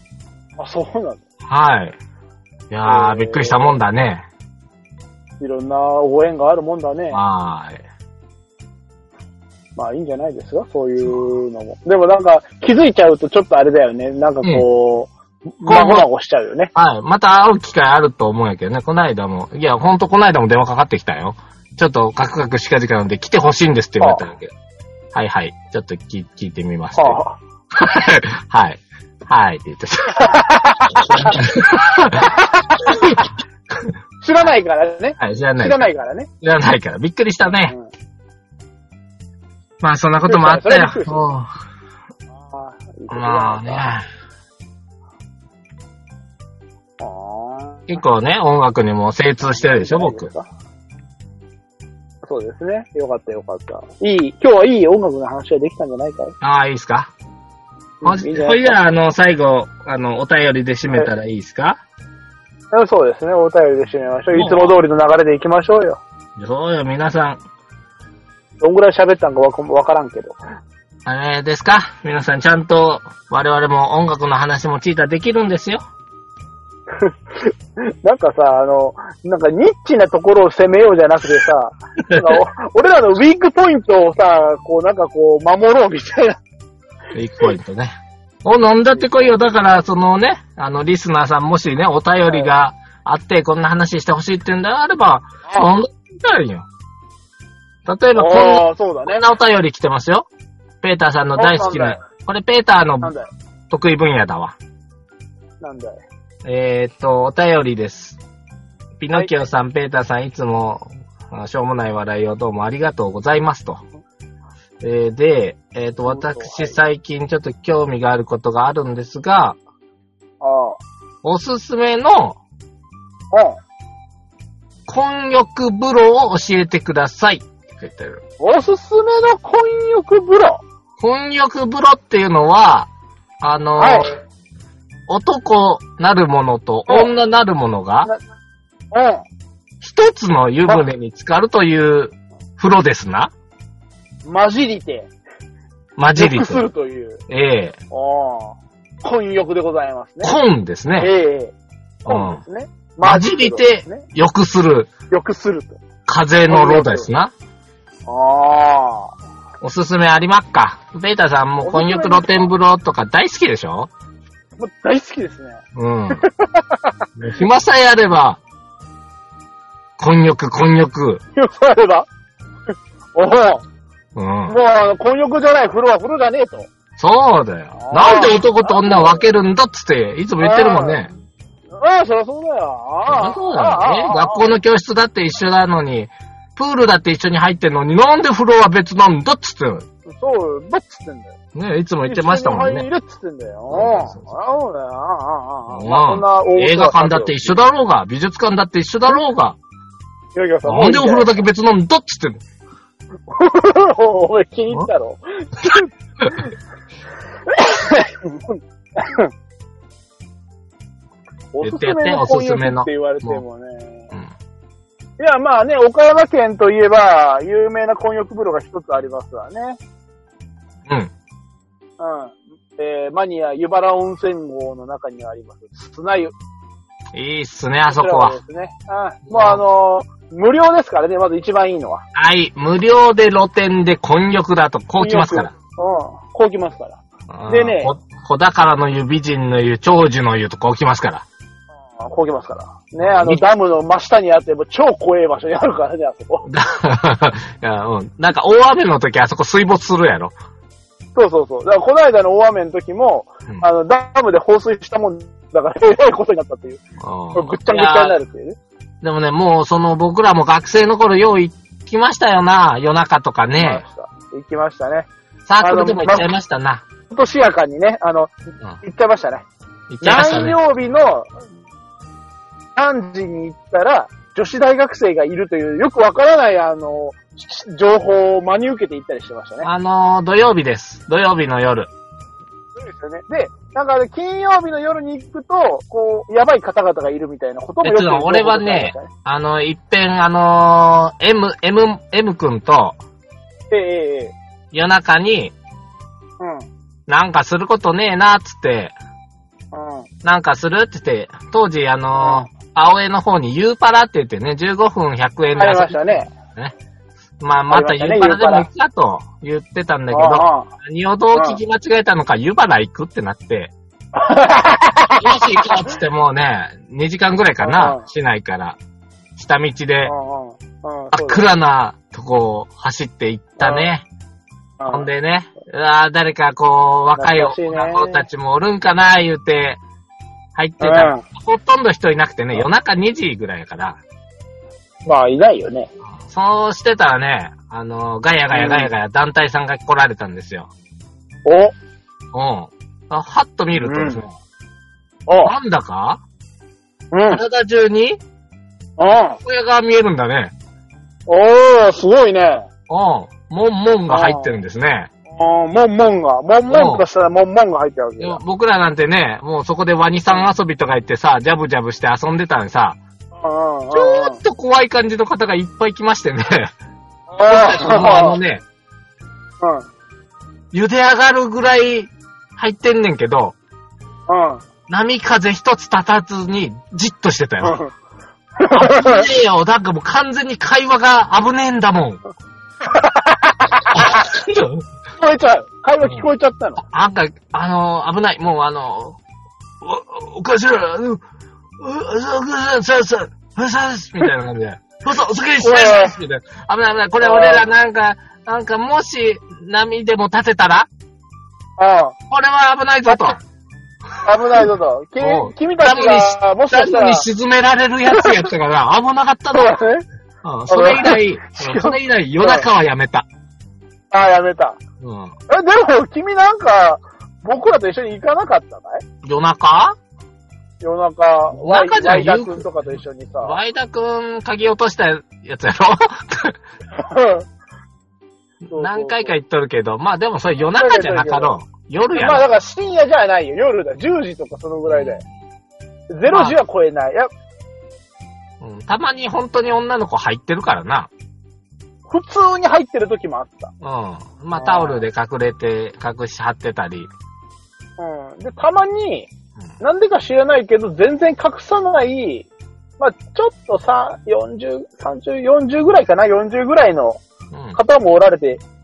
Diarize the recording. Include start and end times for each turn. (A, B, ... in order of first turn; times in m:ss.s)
0:00.6-0:01.2 A
0:01.5-0:02.0 B
0:02.7-0:04.3 B
0:02.8-0:03.8 A
0:05.4-0:07.2 A
0:07.1-0:07.8 B
0:09.8-0:16.7 A
0:11.0-0:11.3 B
0:15.6-0:16.1 B
0:16.8-0:24.5 B
0:24.0-0:24.2 A
0:25.1-0:27.2 B
0:27.0-0:27.4 A
0:27.7-0:30.3 B
0:30.1-0:31.4 A
0:30.9-0:33.9 B
0:32.2-0:33.3 A
0:34.2-0:36.3 A
0:35.2-0:35.8 B
0:36.4-0:37.8 B
0:37.6-0:37.9 A
0:39.8-0:41.5 B
0:40.3-0:41.3 A
0:42.4-0:44.0 A
0:43.1-0:44.0 B
0:47.0-0:48.0 A
0:47.9-0:50.3 B
0:49.5-0:50.5 A
0:52.2-0:56.4 A
0:56.4-0:57.1 B
0:58.0-0:58.8 A
0:58.0-1:01.8 B
1:02.7-1:06.0 A
1:04.3-1:04.8 B
1:06.4-1:07.4 B
1:08.6-1:10.4 A
1:11.1-1:15.8 B
1:17.0-1:26.4 A
1:22.1-1:22.4 B
1:27.1-1:36.7 B
1:35.4-1:35.7 A
1:37.9-1:40.3 B
1:38.2-1:39.3 A
1:40.8-1:43.1 B
1:41.4-1:42.0 A
1:43.0-1:43.3 A
1:43.7-1:44.6 B
1:45.6-1:46.0 A
1:46.4-1:48.2 B
1:49.0-1:53.8 B
1:54.8-1:59.6 B
1:56.1-1:56.8 A
2:00.4-2:00.8 A
2:01.2-2:02.4 B
2:03.3-2:03.6 A
2:04.9-2:08.2 B
2:08.4-2:10.6 A
2:11.0-2:12.9 B
2:13.4-2:14.1 B
2:13.8-2:14.2 A
2:15.1-2:18.1 B
2:18.9-2:19.2 A
2:19.8-2:23.3 B
2:24.3-2:25.1 A
2:26.0-2:26.7 B
2:26.2-2:27.2 A
2:27.3-2:27.8 B
2:27.9-2:30.4 A
2:30.2-2:31.1 B
2:31.0-2:31.5 A
2:32.1-2:32.4 B
2:32.1-2:34.0 A
2:33.0-2:34.9 B
2:35.1-2:35.8 A
2:36.1-2:37.3 B
2:36.5-2:37.1 A
2:38.1-2:39.1 A
2:39.6-2:43.9 B
2:41.6-2:42.5 A
2:44.6-2:45.6 A
2:45.8-2:46.3 B
2:46.2-2:47.0 A
2:47.2-2:48.4 B
2:50.0-2:51.2 B
2:51.4-2:52.1 A
2:53.2-2:53.6 A
2:54.2-2:54.6 B
2:54.5-2:56.7 A
2:57.0-3:01.1 B
2:57.8-2:59.3 A
3:00.4-3:01.2 A
3:01.8-3:04.5 A
3:03.1-3:09.9 B
3:10.1-3:11.4 A
3:11.6-3:12.9 B
3:12.1-3:17.6 A
3:13.7-3:14.3 B
3:15.7-3:19.6 B
3:20.4-3:21.3 A
3:20.6-3:22.4 B
3:23.3-3:26.4 A
3:25.6-3:26.4 B
3:27.5-3:29.3 A
3:31.5-3:34.1 A
3:31.6-3:33.4 B
3:35.2-3:39.8 A
3:42.0-3:46.3 A
3:47.1-3:48.4 B
3:47.9-3:52.0 A
3:49.3-3:49.6 B
3:52.1-3:55.5 B
3:55.0-3:58.0 A
3:57.3-4:01.3 B
4:02.0-4:06.5 A
4:03.0-4:03.4 B
4:06.4-4:10.3 B
4:11.2-4:16.8 A
4:17.0-4:18.2 B
4:17.3-4:18.6 A
4:19.0-4:23.8 B
4:23.6-4:25.1 A
4:25.5-4:26.8 B
4:25.6-4:26.3 A
4:27.1-4:29.4 A
4:29.9-4:30.6 B
4:30.0-4:31.3 A
4:32.8-4:39.7 A
4:39.6-4:41.9 B
4:42.8-4:49.1 A
4:47.8-4:53.0 B
4:53.7-4:54.4 A
4:54.7-4:55.5 B
4:56.4-4:56.7 A
4:57.1-4:59.0 B
4:59.7-5:00.1 A
5:00.2-5:06.8 B
5:02.2-5:02.5 A
5:05.6-5:06.3 A
5:07.4-5:13.7 B
5:07.7-5:08.7 A
5:10.1-5:10.7 A
5:11.3-5:11.6 A
5:14.1-5:15.8 A
5:15.2-5:18.8 B
5:17.6-5:18.0 A
5:19.4-5:20.1 B
5:20.0-5:21.5 A
5:21.1-5:24.1 B
5:23.6-5:23.9 A
5:24.8-5:25.1 A
5:24.9-5:29.8 B
5:27.2-5:28.3 A
5:30.6-5:34.0 B
5:30.8-5:31.2 A
5:35.0-5:35.9 A
5:36.2-5:40.7 B
5:38.5-5:38.9 A
5:41.5-5:41.7 A
5:42.3-5:44.3 B
5:43.8-5:44.2 A
5:45.3-5:45.5 A
5:45.4-5:46.2 B
5:47.1-5:47.4 A
5:47.3-5:48.2 B
5:49.0-5:49.4 A
5:49.4-5:50.5 B
5:51.3-5:52.7 A
5:52.9-5:55.1 B
5:54.1-5:54.6 A
5:55.3-5:58.4 A
5:56.7-5:57.0 B
5:58.2-6:03.0 B
6:03.4-6:04.4 A
6:03.9-6:06.7 B
6:07.3-6:08.4 A
6:07.5-6:08.6 B
6:09.6-6:09.9 A
6:10.7-6:13.6 B
6:14.3-6:14.6 A
6:14.9-6:17.8 B
6:17.6-6:17.9 A
6:18.6-6:19.3 A
6:18.7-6:22.2 B
6:22.8-6:24.3 A
6:23.9-6:24.8 B
6:25.2-6:26.8 A
6:26.8-6:29.2 B
6:29.8-6:31.2 B
6:31.8-6:40.9 B
6:35.6-6:36.2 A
6:37.2-6:37.6 A
6:41.8-6:42.2 A
6:42.3-6:43.4 B
6:44.2-6:47.3 A
6:45.2-6:49.8 B
6:48.2-6:48.5 A
6:49.5-6:50.0 A
6:50.4-6:53.3 B
6:50.7-6:52.7 A
6:54.1-6:54.8 A
6:55.0-6:55.3 B
6:55.5-6:59.0 A
6:59.2-7:00.0 B
7:00.8-7:03.6 A
7:01.5-7:06.6 B
7:07.0-7:07.5 A
7:08.6-7:12.5 B
7:08.7-7:09.3 A
7:10.7-7:11.6 A
7:12.1-7:15.2 A
7:14.9-7:15.3 B
7:16.1-7:17.3 A
7:16.3-7:16.6 B
7:18.6-7:21.1 B
7:22.1-7:23.7 A
7:23.8-7:27.1 B
7:24.6-7:25.0 A
7:28.0-7:29.3 A
7:29.8-7:37.2 A
7:37.5-7:37.8 B
7:37.8-7:38.6 A